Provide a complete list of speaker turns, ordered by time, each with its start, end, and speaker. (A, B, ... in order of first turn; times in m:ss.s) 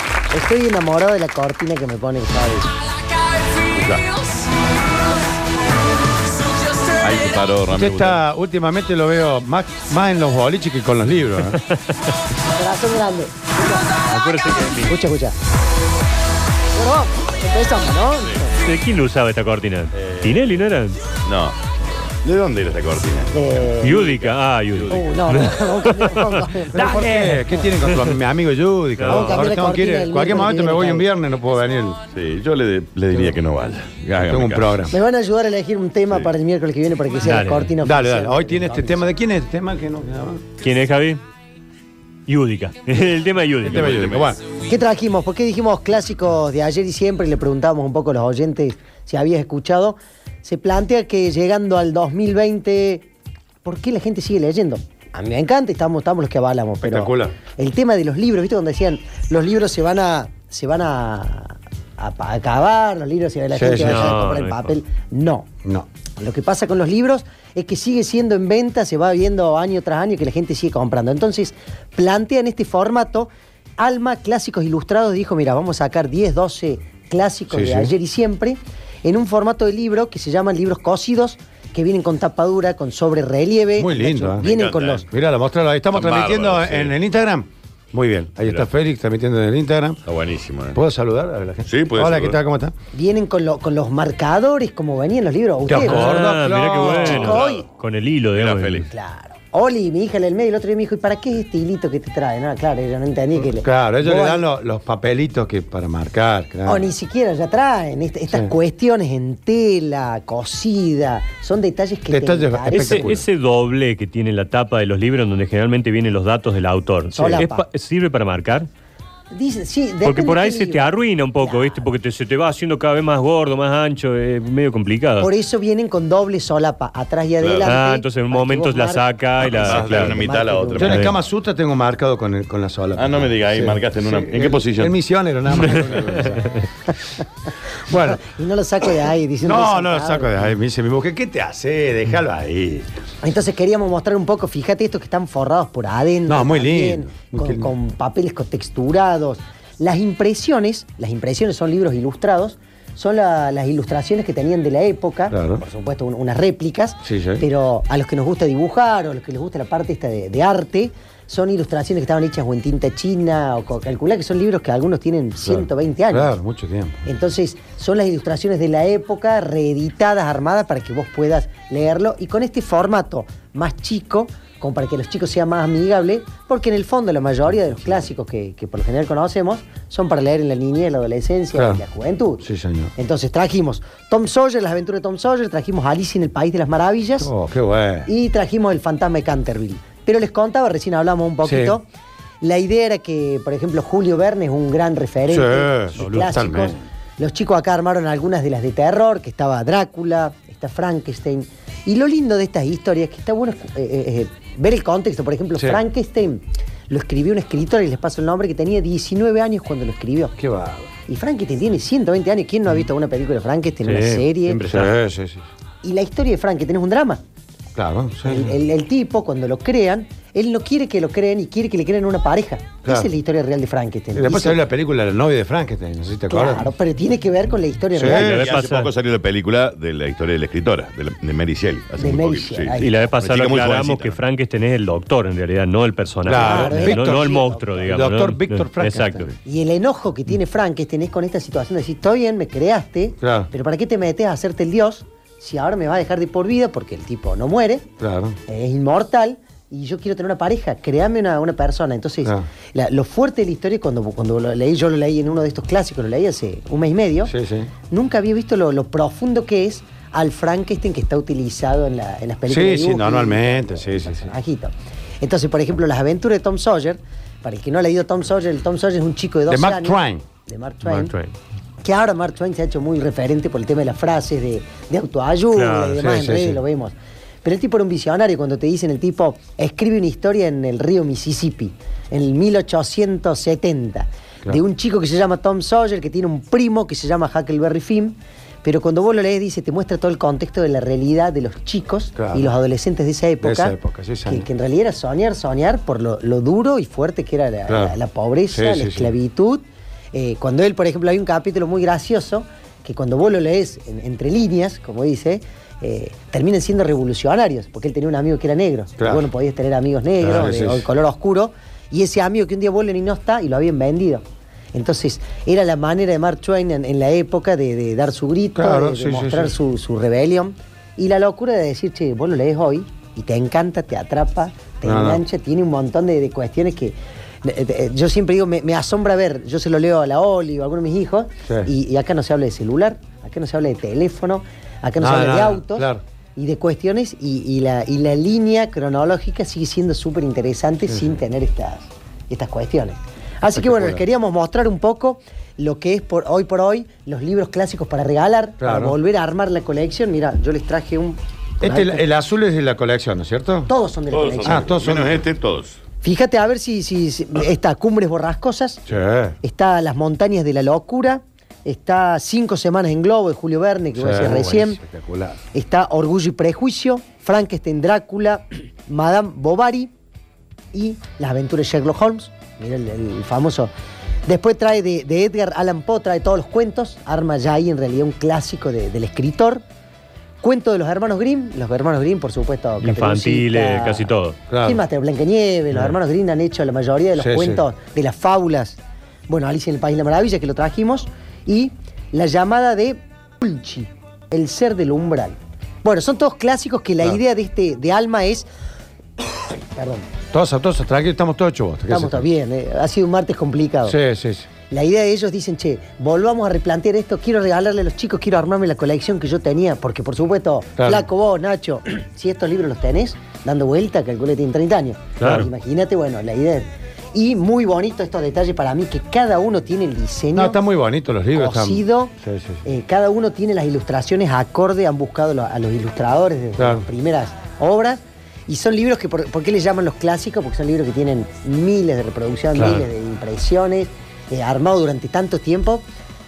0:00.3-0:02.7 A
0:03.7-0:04.1 B
0:07.0-0:08.2 B
0:07.7-0:11.6 C
0:12.6-0:14.0 A
0:14.1-0:15.0 D
0:14.9-0:15.4 A
0:16.7-0:18.6 A
0:18.6-0:21.0 D
0:19.9-0:20.6 B
0:21.2-0:21.6 B
0:22.2-0:25.5 B
0:23.3-0:24.0 A
0:23.8-0:28.1 D
0:24.9-0:27.7 A
0:26.7-0:32.0 C
0:29.0-0:29.5 D
0:29.1-0:31.1 A
0:32.1-0:34.8 B
0:34.2-0:35.0 C
0:34.9-0:39.1 A
0:37.2-0:37.7 D
0:37.8-0:40.4 C
0:40.6-0:41.2 D
0:42.3-0:44.0 D
0:43.6-0:44.4 C
0:43.7-0:44.4 B
0:44.7-0:53.1 A
0:53.6-1:05.5 A
0:56.8-0:57.4 C
1:03.5-1:04.2 C
1:03.8-1:04.7 D
1:06.2-1:25.1 A
1:17.5-1:17.9 C
1:23.8-1:24.5 C
1:24.4-1:25.1 B
1:25.1-1:30.0 C
1:25.9-1:27.0 B
1:30.1-1:30.8 B
1:30.7-1:32.7 C
1:31.6-1:32.4 B
1:32.9-1:36.2 A
1:35.7-1:37.4 C
1:35.8-1:38.9 D
1:37.0-1:37.6 B
1:37.1-1:37.7 A
1:38.3-1:38.9 B
1:38.9-1:44.4 A
1:43.4-1:46.9 C
1:46.7-1:53.1 A
1:52.1-1:53.2 C
1:52.7-1:58.7 D
1:57.1-1:57.6 A
1:59.3-2:01.8 A
2:00.0-2:05.3 D
2:05.2-2:09.1 A
2:07.4-2:07.8 B
2:07.6-2:10.2 D
2:09.4-2:11.2 B
2:09.6-2:11.0 A
2:10.8-2:16.5 C
2:10.8-2:11.2 D
2:13.0-2:15.0 B
2:15.6-2:16.6 D
2:17.9-2:18.2 C
2:17.9-2:20.4 A
2:19.4-2:22.9 C
2:23.2-2:46.4 A
2:26.3-2:27.7 C
2:35.3-2:35.6 C
2:37.0-2:37.4 C
2:45.4-2:47.0 C
2:47.1-3:02.4 A
3:01.5-3:01.8 C
3:02.4-3:02.9 C
3:03.0-3:07.3 A
3:07.2-3:08.1 C
3:08.1-3:11.9 A
3:11.4-3:11.8 C
3:12.4-3:30.4 A
3:15.3-3:16.8 C
3:16.0-3:16.4 D
3:25.6-3:25.8 C
3:30.4-3:30.9 C
3:31.1-3:34.6 A
3:33.9-3:35.5 C
3:34.6-3:34.9 D
3:35.8-3:37.2 A
3:37.8-3:38.6 C
3:38.2-3:44.6 A
3:42.8-3:43.1 C
3:44.1-3:46.7 C
3:46.3-3:48.4 A
3:47.9-3:48.5 C
3:48.0-3:54.2 B
3:48.1-3:48.9 D
3:52.0-3:53.0 A
3:52.8-3:59.2 D
3:56.2-3:59.2 C
3:56.4-3:57.9 A
3:59.4-4:07.9 A
4:03.2-4:03.5 C
4:08.0-4:08.4 C
4:08.5-4:17.3 A
4:17.3-4:17.7 C
4:17.9-4:31.1 A
4:22.5-4:24.3 C
4:29.5-4:30.2 C
4:30.9-4:31.3 D
4:31.8-5:52.1 A
4:35.6-4:36.0 D
4:36.0-4:36.6 C
4:52.2-4:52.5 C
4:53.4-4:54.5 C
4:57.7-4:58.0 C
4:58.5-4:59.1 C
5:09.0-5:09.2 C
5:10.2-5:10.8 C
5:18.6-5:19.5 C
5:24.8-5:25.2 C
5:35.0-5:36.0 C
5:43.6-5:44.0 C
5:48.6-5:49.0 C
5:51.6-5:53.7 C
5:53.7-5:54.8 A
5:54.1-5:55.8 B
5:54.4-5:55.2 C
5:56.0-5:58.8 A
5:58.9-5:59.4 C
5:59.4-6:04.8 A
6:04.0-6:05.4 C
6:05.5-6:09.9 A
6:10.7-6:13.7 A
6:14.3-6:19.6 A
6:20.4-6:38.5 A
6:22.8-6:24.4 D
6:24.5-6:24.8 C
6:27.2-6:27.6 C
6:39.2-6:40.1 A
6:40.3-6:42.2 C
6:41.9-6:44.0 A
6:43.8-6:44.5 C
6:44.7-7:00.6 A
6:50.8-6:51.0 C
6:55.2-6:55.5 C
7:00.4-7:02.6 C
7:01.4-7:02.1 A
7:02.6-7:15.8 A
7:06.6-7:06.8 C
7:12.6-7:12.8 C